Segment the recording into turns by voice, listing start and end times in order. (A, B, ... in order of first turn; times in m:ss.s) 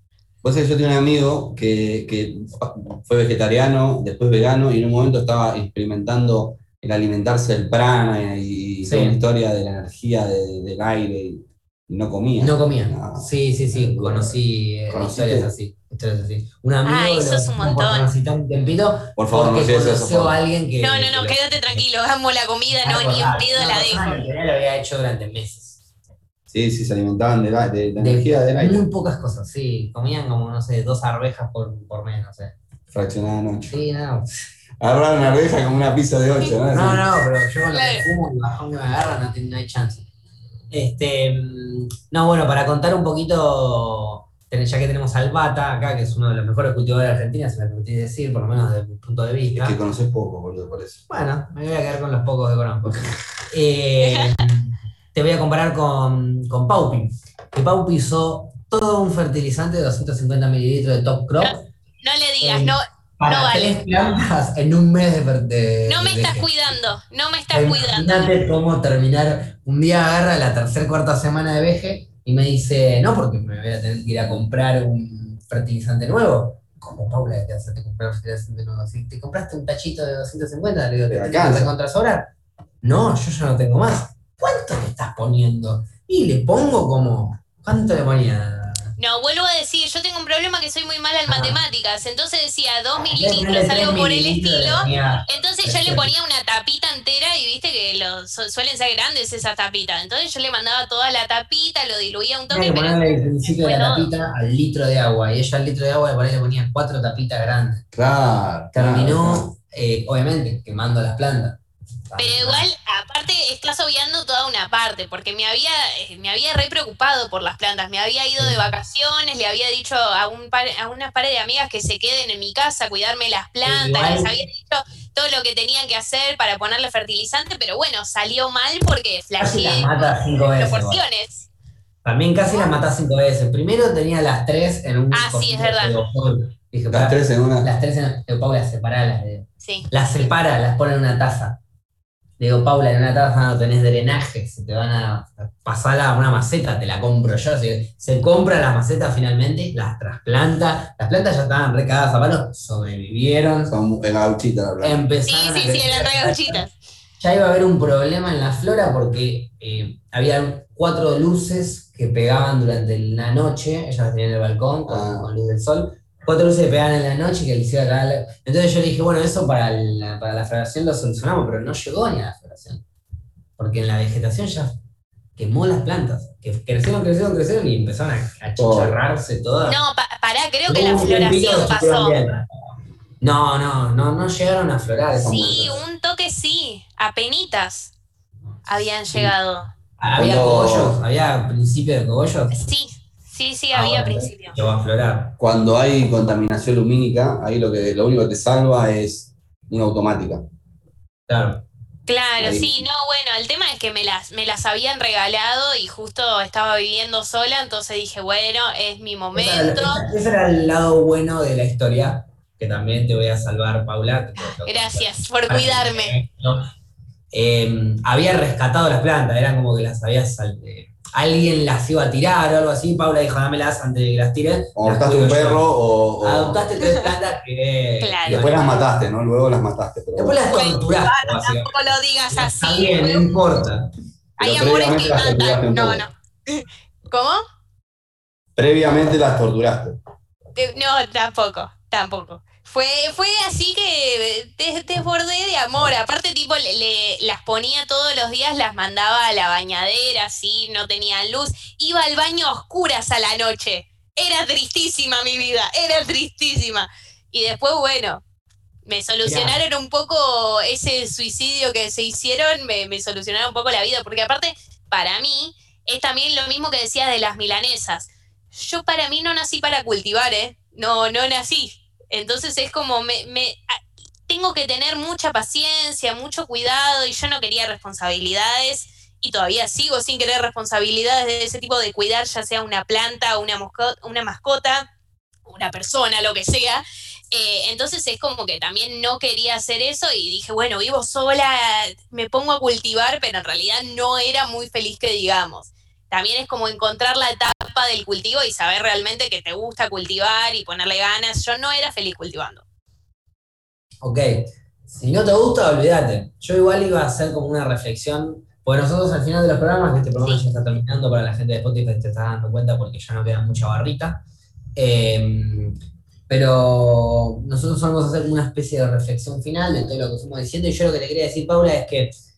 0:00.4-0:15.5 A
0:08.8-0:09.2 B
0:12.4-0:21.4 B
0:16.8-0:18.1 C
0:19.2-0:20.4 A
0:20.8-0:24.3 C
0:22.8-0:25.8 B
0:26.5-0:28.8 A
0:28.0-0:32.5 B
0:32.9-0:33.7 A
0:33.7-0:34.3 B
0:34.8-0:37.1 A
0:36.7-0:40.0 B
0:37.7-0:38.0 C
0:40.7-0:49.8 B
0:49.6-0:51.0 A
0:51.1-1:01.7 B
0:54.0-0:54.3 C
1:01.4-1:03.8 C
1:02.4-1:06.5 B
1:05.9-1:08.3 C
1:07.5-1:22.3 B
1:21.1-1:21.7 A
1:22.8-1:28.9 B
1:29.0-1:44.1 C
1:31.3-1:31.6 B
1:33.1-1:36.1 B
1:42.5-1:47.8 B
1:47.9-1:49.5 A
1:48.7-1:51.6 B
1:52.1-1:52.7 B
1:52.2-2:11.5 C
2:03.6-2:04.3 B
2:09.4-2:11.0 B
2:12.0-2:21.6 B
2:15.1-2:16.0 C
2:16.9-2:17.7 A
2:19.6-2:19.9 C
2:22.4-2:33.8 B
2:33.7-2:35.0 A
2:34.8-2:36.6 B
2:35.3-2:36.7 C
2:37.2-2:52.8 B
2:44.8-2:45.3 A
2:53.6-2:54.8 B
2:55.4-2:59.8 B
2:58.6-2:59.0 A
2:59.7-3:02.2 C
3:00.7-3:02.4 B
3:03.2-3:05.8 B
3:05.2-3:07.9 C
3:08.6-3:09.7 C
3:10.0-3:12.6 B
3:10.2-3:11.0 A
3:12.5-3:14.6 C
3:13.7-3:15.3 B
3:15.4-3:20.4 A
3:21.3-3:21.6 B
3:22.1-3:30.0 C
3:22.4-3:22.8 A
3:29.3-3:36.7 B
3:34.4-3:36.2 C
3:37.3-3:48.8 B
3:44.7-3:46.6 A
3:48.0-3:48.5 C
3:48.2-3:50.4 A
3:50.2-3:53.9 B
3:50.5-3:53.4 C
3:54.4-3:57.4 C
3:54.4-3:56.0 A
3:58.6-4:00.0 A
4:00.6-4:18.2 C
4:18.8-4:33.8 C
4:19.2-4:19.6 B
4:34.3-4:44.9 C
4:45.4-5:02.6 C
5:04.0-5:14.2 B
5:14.7-5:15.7 B
5:16.3-5:22.1 B